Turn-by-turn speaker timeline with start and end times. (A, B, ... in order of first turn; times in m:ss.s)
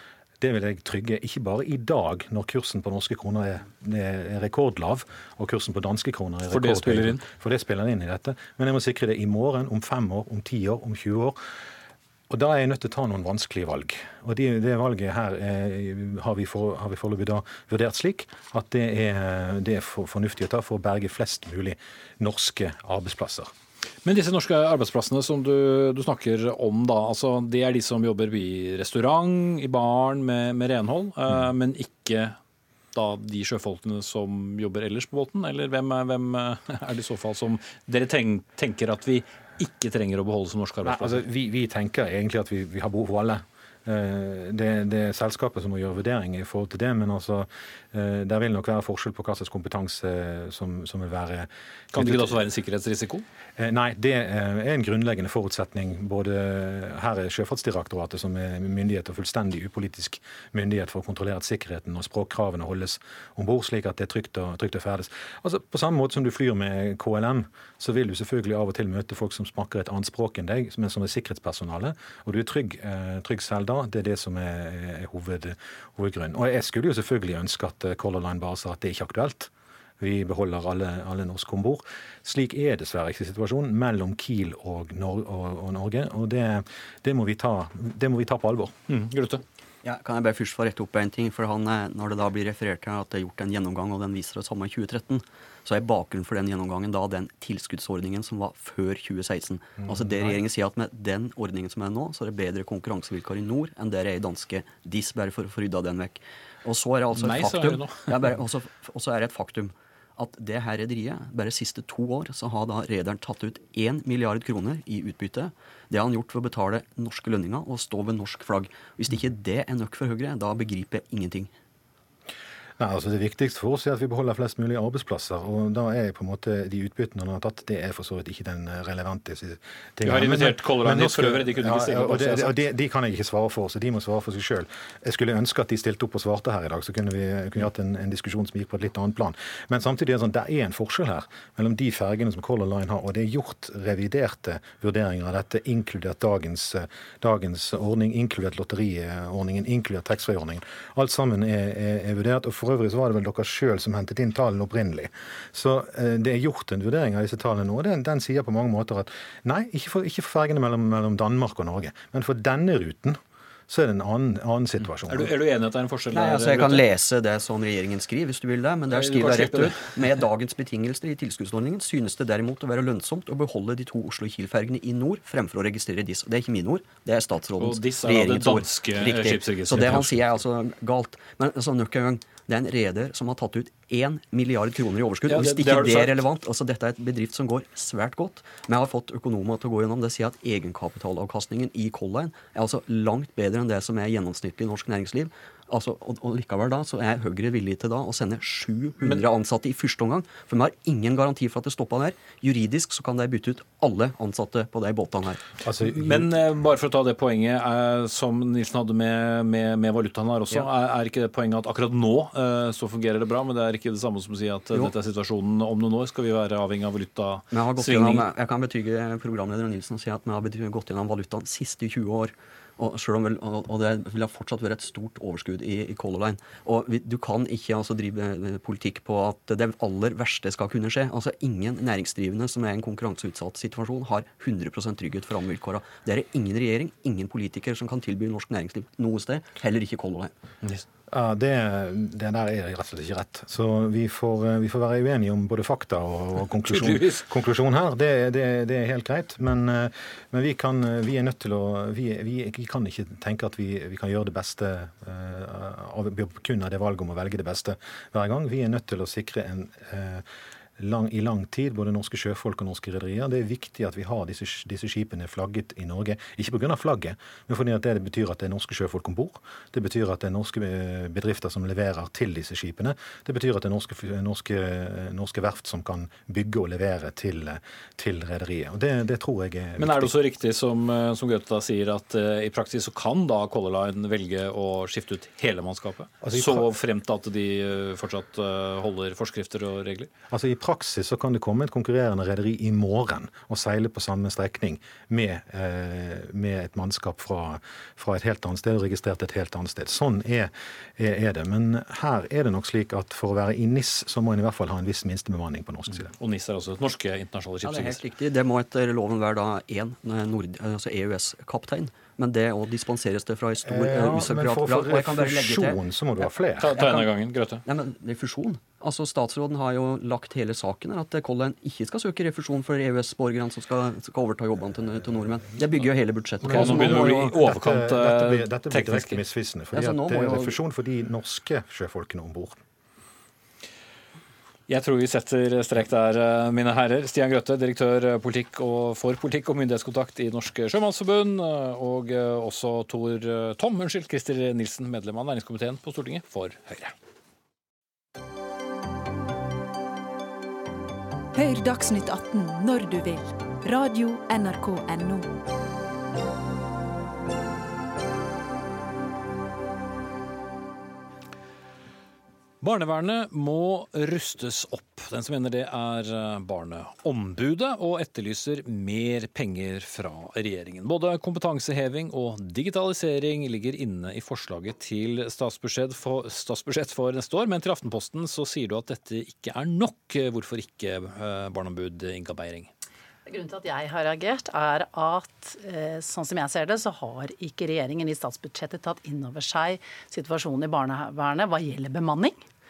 0:00.4-0:11.4 A
0:06.5-0:07.2 B
0:12.3-0:23.5 A
0:24.0-0:32.4 B
0:32.9-0:41.2 B
0:40.8-0:52.4 A
0:51.9-0:53.2 B
0:53.6-1:28.8 A
1:28.9-1:29.4 B
1:29.8-2:01.5 C
1:39.8-1:40.1 A
1:47.2-1:48.2 B
2:02.8-2:45.3 A
2:10.0-2:12.6 B
2:45.1-2:46.8 B
2:46.1-3:25.5 C
2:48.9-2:50.1 B
2:57.6-3:00.2 B
3:05.3-3:06.2 B
3:25.7-3:26.2 A
3:25.8-3:38.2 B
3:37.5-4:00.3 C
4:01.1-4:20.2 A
4:06.7-4:07.2 B
4:20.8-4:40.1 A
4:39.8-4:50.1 B
4:46.2-4:46.7 A
4:50.3-5:06.1 A
5:06.2-5:08.0 B
5:07.6-5:15.8 C
5:13.6-5:16.8 A
5:16.6-5:17.6 B
5:16.8-5:17.1 C
5:17.7-5:27.1 C
5:26.4-5:32.6 A
5:26.5-5:29.2 B
5:29.7-5:30.6 C
5:34.7-5:46.9 B
5:51.4-5:55.3 D
6:02.6-6:22.7 B
6:23.3-6:32.4 E